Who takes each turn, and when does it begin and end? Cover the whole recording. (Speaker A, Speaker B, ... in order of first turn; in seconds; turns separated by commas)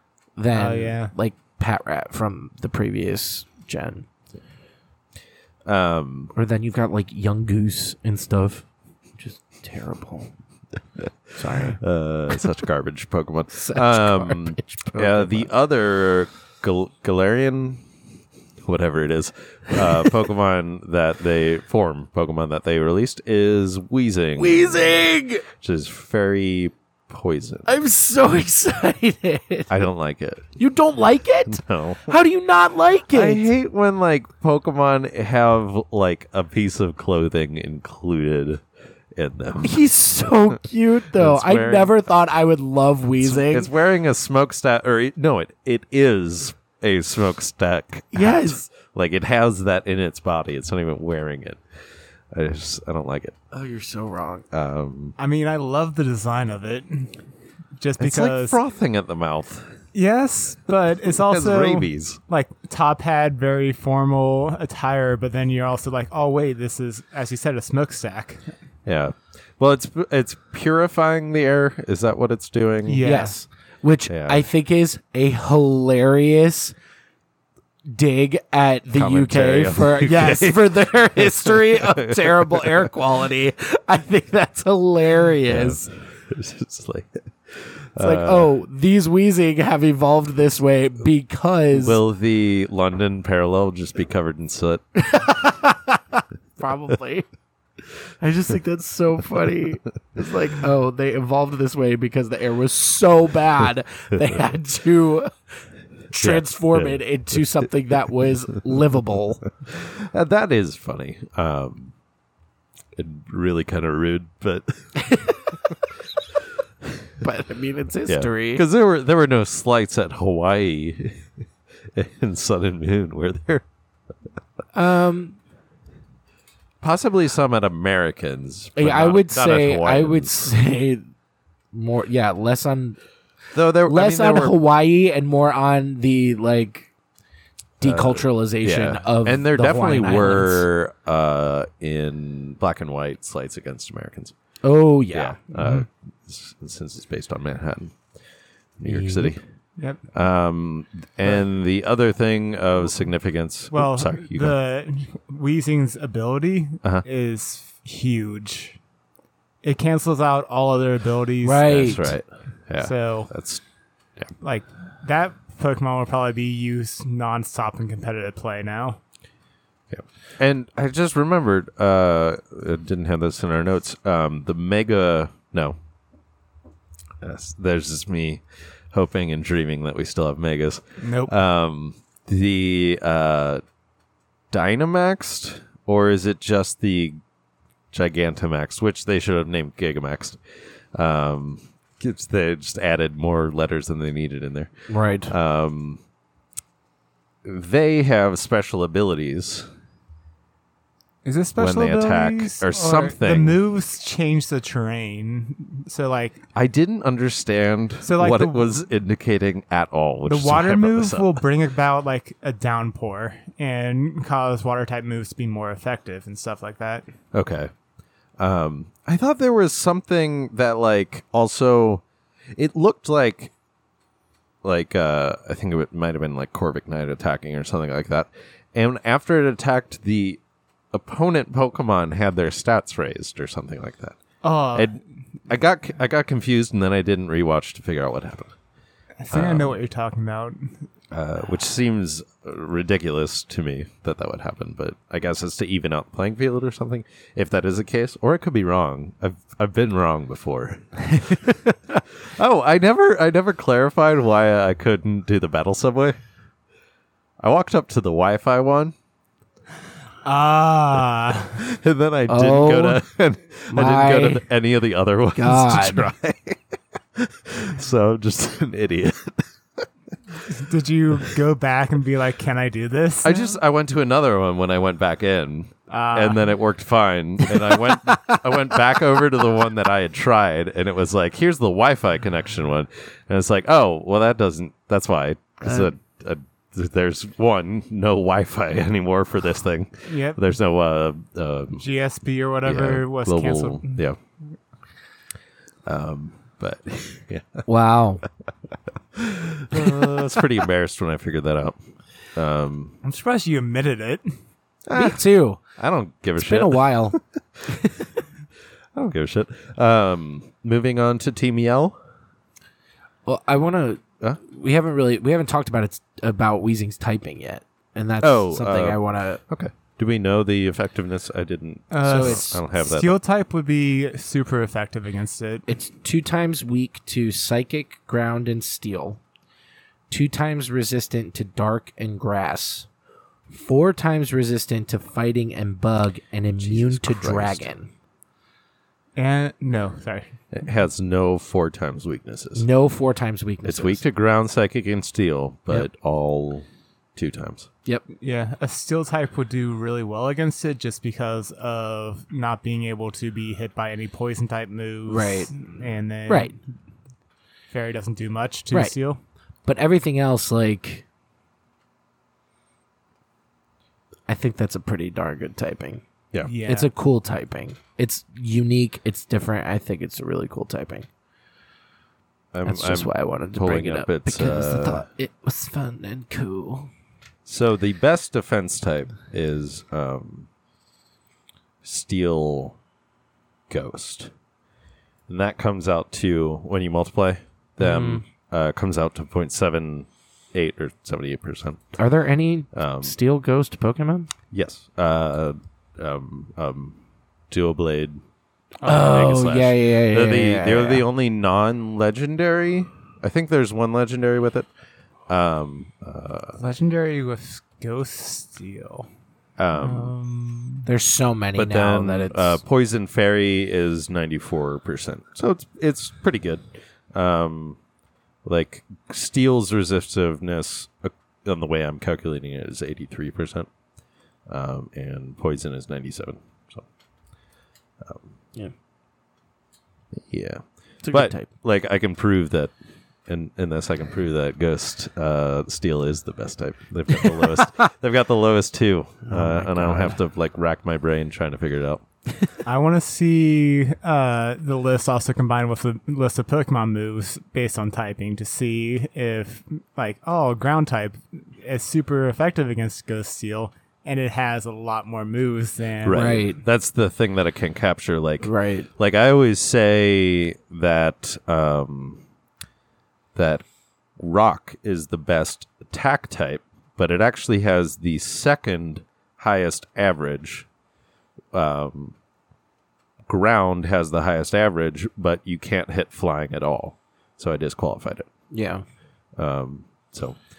Speaker A: 0.4-4.1, Speaker B: 0.5-1.1, Speaker C: 5.6-6.3, Speaker A: 6.3-8.7, Speaker A: 9.2-10.3, Speaker A: 11.3-11.8, Speaker C: 11.8-17.8, Speaker A: 13.5-15.5, Speaker C: 18.6-24.9, Speaker A: 24.4-25.5, Speaker C: 25.6-27.7, Speaker A: 27.6-29.8, Speaker C: 29.7-30.5, Speaker A: 30.6-33.5, Speaker C: 31.5-32.2, Speaker C: 33.1-38.6, Speaker C: 39.1-39.8, Speaker A: 39.6-43.7, Speaker C: 41.1-41.9, Speaker C: 43.2-51.6, Speaker A: 48.1-48.6, Speaker C: 52.3-53.4, Speaker A: 53.5-54.5, Speaker C: 54.5-55.2, Speaker B: 55.2-57.2, Speaker B: 57.8-58.6, Speaker C: 58.0-59.8, Speaker B: 59.9-68.4, Speaker C: 61.1-62.2, Speaker C: 68.8-73.1, Speaker B: 72.9-73.3, Speaker A: 73.0-76.8, Speaker C: 74.1-74.4, Speaker A: 77.9-85.9, Speaker C: 79.0-82.9, Speaker C: 85.5-88.5, Speaker A: 88.0-92.0, Speaker C: 91.7-94.8, Speaker A: 95.0-97.2, Speaker A: 98.2-105.3, Speaker A: 106.1-109.4, Speaker C: 106.2-107.4, Speaker C: 109.7-111.9, Speaker C: 113.0-115.0, Speaker A: 115.1-115.4, Speaker A: 117.2-118.6, Speaker C: 118.1-121.3, Speaker C: 121.9-123.6, Speaker A: 124.7-125.4, Speaker C: 126.8-130.3, Speaker A: 128.8-131.1, Speaker A: 131.7-133.0, Speaker C: 133.5-134.6, Speaker A: 133.8-136.9, Speaker A: 137.8-140.6, Speaker C: 137.8-144.3, Speaker A: 144.6-145.9, Speaker C: 145.1-148.0, Speaker C: 148.8-149.4, Speaker A: 148.8-149.4, Speaker C: 150.1-154.6, Speaker B: 153.7-158.8, Speaker B: 159.6-162.0, Speaker A: 161.4-162.1, Speaker C: 161.7-163.6, Speaker B: 162.8-163.3, Speaker B: 164.4-169.0, Speaker C: 169.9-175.8, Speaker C: 177.2-183.6, Speaker B: 181.0-181.3, Speaker C: 184.5-187.2, Speaker C: 187.9-190.4, Speaker C: 190.9-194.7, Speaker A: 194.9-195.3, Speaker C: 195.3-196.0, Speaker C: 197.4-199.7, Speaker B: 201.2-206.4, Speaker C: 201.6-203.6, Speaker C: 206.6-211.4, Speaker B: 208.0-208.7, Speaker B: 210.2-217.1, Speaker C: 217.3-217.7, Speaker C: 218.4-222.0, Speaker C: 222.6-223.5, Speaker C: 224.6-230.4, Speaker C: 230.9-234.2, Speaker B: 234.4-235.0, Speaker C: 235.5-238.5, Speaker B: 239.2-240.8, Speaker C: 239.3-239.8, Speaker C: 241.1-256.2, Speaker C: 257.4-258.9, Speaker B: 260.2-261.6, Speaker C: 261.6-269.9, Speaker A: 262.3-263.0, Speaker A: 263.7-264.4, Speaker A: 265.4-266.1, Speaker B: 270.4-273.6, Speaker C: 273.2-291.8, Speaker B: 275.9-276.4, Speaker A: 285.7-285.9, Speaker B: 290.1-290.4, Speaker B: 291.8-294.0, Speaker C: 292.6-294.2, Speaker C: 295.9-297.6, Speaker A: 297.7-298.2, Speaker C: 299.1-301.8, Speaker C: 302.4-303.0, Speaker B: 303.0-304.2, Speaker C: 304.9-305.2, Speaker A: 304.9-305.6, Speaker C: 305.8-307.7, Speaker A: 306.4-307.2, Speaker C: 308.9-312.0, Speaker A: 313.2-319.4, Speaker C: 318.2-323.2, Speaker B: 321.9-325.7, Speaker A: 322.0-322.5, Speaker A: 325.7-329.2, Speaker A: 330.1-332.9, Speaker A: 333.5-337.9, Speaker C: 336.6-337.7, Speaker B: 339.2-340.3, Speaker C: 340.5-342.7, Speaker A: 342.6-344.0, Speaker C: 343.6-346.6, Speaker C: 347.2-347.7, Speaker B: 348.2-356.6, Speaker A: 355.1-355.5, Speaker A: 356.3-356.6, Speaker B: 357.7-359.2, Speaker A: 359.6-361.0, Speaker A: 364.3-366.0, Speaker B: 366.4-366.9, Speaker A: 366.6-371.1, Speaker C: 372.5-375.1, Speaker A: 372.6-376.9, Speaker C: 377.4-380.5, Speaker C: 381.8-382.8, Speaker C: 383.7-384.3, Speaker C: 385.3-391.8, Speaker A: 387.8-388.2, Speaker A: 392.0-394.3, Speaker C: 392.7-393.1, Speaker C: 394.5-397.0, Speaker C: 397.5-398.2, Speaker A: 398.8-401.0, Speaker C: 398.9-404.7, Speaker B: 398.9-399.2, Speaker C: 405.3-406.6, Speaker B: 406.6-409.1, Speaker C: 409.6-410.1, Speaker B: 409.7-410.9, Speaker A: 410.9-412.6, Speaker C: 411.6-417.8, Speaker C: 418.4-423.7, Speaker C: 424.5-426.9, Speaker C: 428.0-428.3, Speaker C: 430.1-432.7, Speaker A: 431.0-431.5, Speaker C: 433.3-442.0, Speaker B: 439.3-440.1, Speaker A: 439.8-440.1, Speaker B: 442.6-456.4, Speaker C: 456.0-462.2, Speaker A: 456.1-456.6, Speaker A: 458.4-458.9, Speaker C: 463.4-463.6, Speaker C: 464.2-470.7, Speaker C: 471.5-472.1, Speaker C: 473.3-478.3, Speaker A: 478.5-478.8, Speaker C: 479.4-480.4